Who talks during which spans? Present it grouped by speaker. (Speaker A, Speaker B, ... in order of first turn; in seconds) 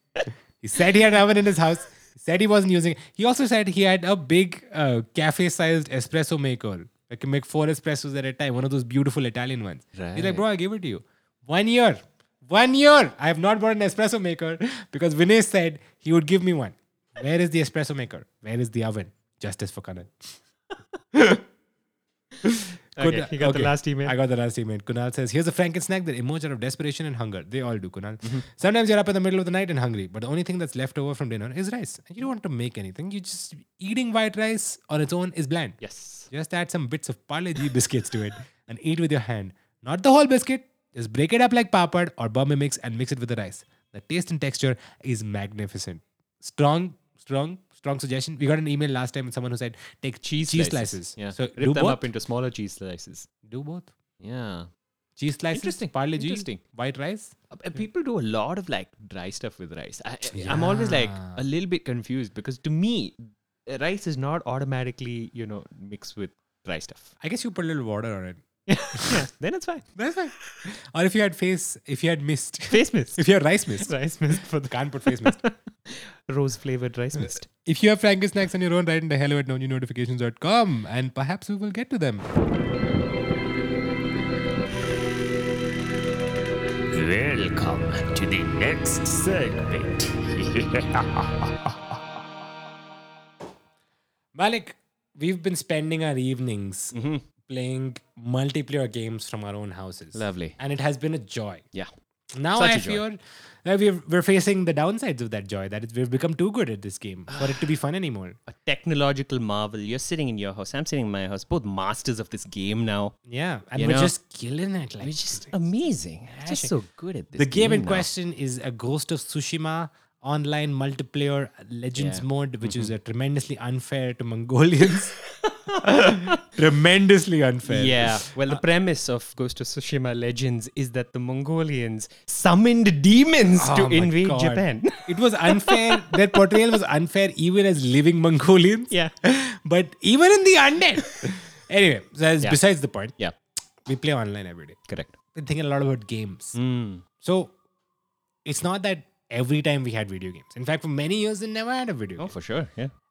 Speaker A: 0.6-20.3, 21.1-21.4, 22.4-52.0, 53.4-53.9, 55.2-57.3, 60.3-61.4, 67.2-68.4, 68.9-69.2, 70.0-75.4, 77.2-82.3, 94.3-96.9, 97.5-101.7, 102.3-108.4, 113.2-115.6, 116.4-116.7, 117.3-125.1, 125.8-128.6, 133.6-143.1, 143.8-144.8, 145.3-146.5, 147.2-147.5, 148.4-152.3
Speaker B: 9.9-10.4, 23.0-24.1, 35.8-36.3, 50.2-53.3, 54.2-54.7, 55.5-56.6, 57.5-67.1, 68.7-69.8, 72.7-73.2, 73.8-77.5, 96.9-97.2, 100.1-100.6, 102.5-103.0, 108.5-113.1, 113.8-114.1, 115.0-118.1, 121.9-122.9, 127.7-136.4, 144.9-145.1, 146.5-147.0, 152.2-152.9
Speaker C: 86.9-91.3